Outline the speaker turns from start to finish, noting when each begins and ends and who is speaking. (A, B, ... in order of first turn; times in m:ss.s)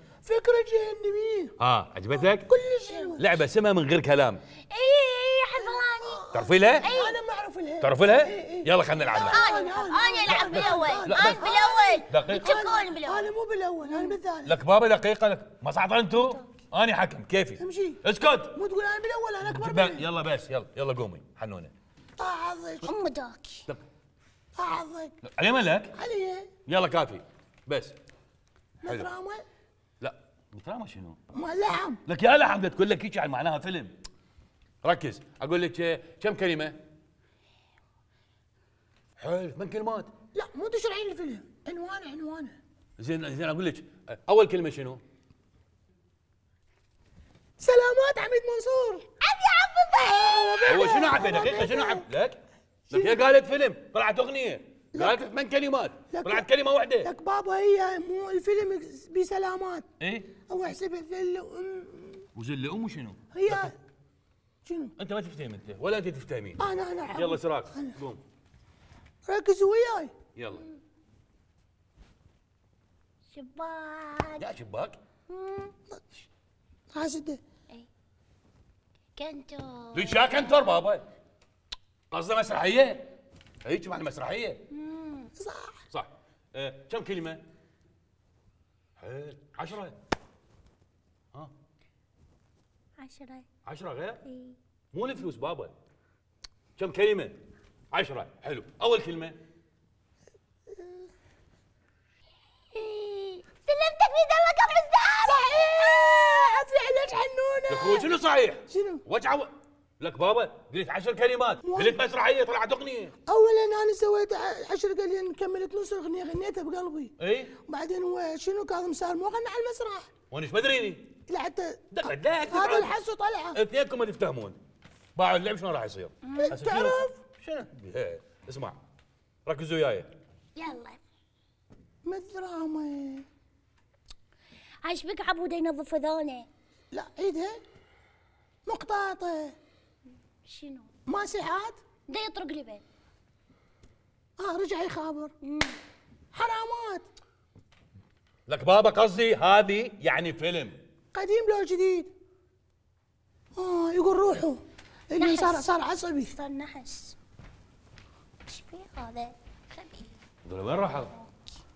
0:00.2-0:01.5 A
0:01.6-0:02.5 B
0:02.1-0:03.3 A
0:02.9-0:03.2 C
0:03.2-0:04.4 B
0:04.7-0:06.2 C
0:06.0-0:14.6 A
0:06.3-0:06.9 B
0:06.8-0:07.2 C
0:07.8-0:09.4 B
0:09.1-0:13.3 C
0:10.3-0:11.5 B
0:12.1-0:12.6 B
0:13.8-0:14.2 C
0:14.4-0:18.6 B
0:16.2-0:16.4 C
0:17.6-0:18.0 A
0:18.5-0:20.1 A
0:19.4-0:21.7 B
0:22.2-0:22.9 A
0:22.8-0:23.7 C
0:24.6-0:25.1 A
0:25.2-0:25.9 B
0:25.9-0:26.5 A
0:26.6-0:27.9 B
0:28.8-0:29.4 A
0:30.0-0:31.2 B
0:31.3-0:32.0 A
0:32.0-0:33.9 B
0:34.8-0:36.8 B
0:39.2-0:40.1 B
0:40.3-0:42.6 A
0:43.0-0:45.0 B
0:47.6-0:49.0 A
0:49.2-0:51.4 C
0:50.0-0:52.1 A
0:50.7-0:52.4 B
0:52.9-0:57.1 B
0:52.9-0:53.2 A
0:54.9-0:55.3 A
0:56.1-0:56.5 A
0:57.0-0:59.8 A
1:00.0-1:00.3 B
1:00.5-1:02.3 A
1:02.3-1:03.7 B
1:03.3-1:03.7 A
1:04.6-1:04.9 A
1:05.0-1:08.2 B
1:06.6-1:08.0 A
1:09.2-1:10.1 A
1:10.4-1:10.6 B
1:13.3-1:14.4 C
1:14.4-1:15.0 B
1:15.3-1:15.7 C
1:16.9-1:17.4 A
1:19.2-1:20.6 C
1:19.9-1:21.0 B
1:22.1-1:23.1 B
1:23.6-1:24.6 B
1:24.7-1:25.3 C
1:25.4-1:25.8 A
1:25.9-1:27.4 B
1:29.0-1:30.0 B
1:33.0-1:33.4 C
1:33.6-1:34.2 B
1:34.2-1:34.6 C
1:34.9-1:35.7 B
1:36.8-1:37.4 B
1:37.9-1:39.4 B
1:42.7-1:46.3 C
1:45.2-1:48.1 A
1:47.7-1:53.1 B
1:48.7-1:49.0 A
1:51.6-1:52.0 A
1:53.2-1:57.1 A
1:57.2-1:57.5 B
1:57.6-2:00.1 A
2:00.3-2:01.1 B
2:01.3-2:03.6 A
2:01.9-2:02.9 B
2:03.5-2:04.6 B
2:05.1-2:08.8 B
2:06.2-2:06.5 C
2:06.4-2:07.2 A
2:09.4-2:10.1 B
2:10.6-2:11.0 C
2:12.0-2:13.2 A
2:14.8-2:16.5 C
2:16.9-2:17.6 A
2:18.6-2:19.6 A
2:20.4-2:20.9 C
2:21.0-2:21.8 A
2:22.1-2:22.8 C
2:24.4-2:25.3 A
2:25.4-2:25.8 C
2:26.3-2:27.0 A
2:28.5-2:30.8 B
2:31.1-2:32.1 A
2:33.6-2:36.3 A
2:35.2-2:35.8 C
2:36.3-2:37.2 C
2:38.5-2:40.1 C
2:40.4-2:41.1 B
2:41.0-2:41.3 C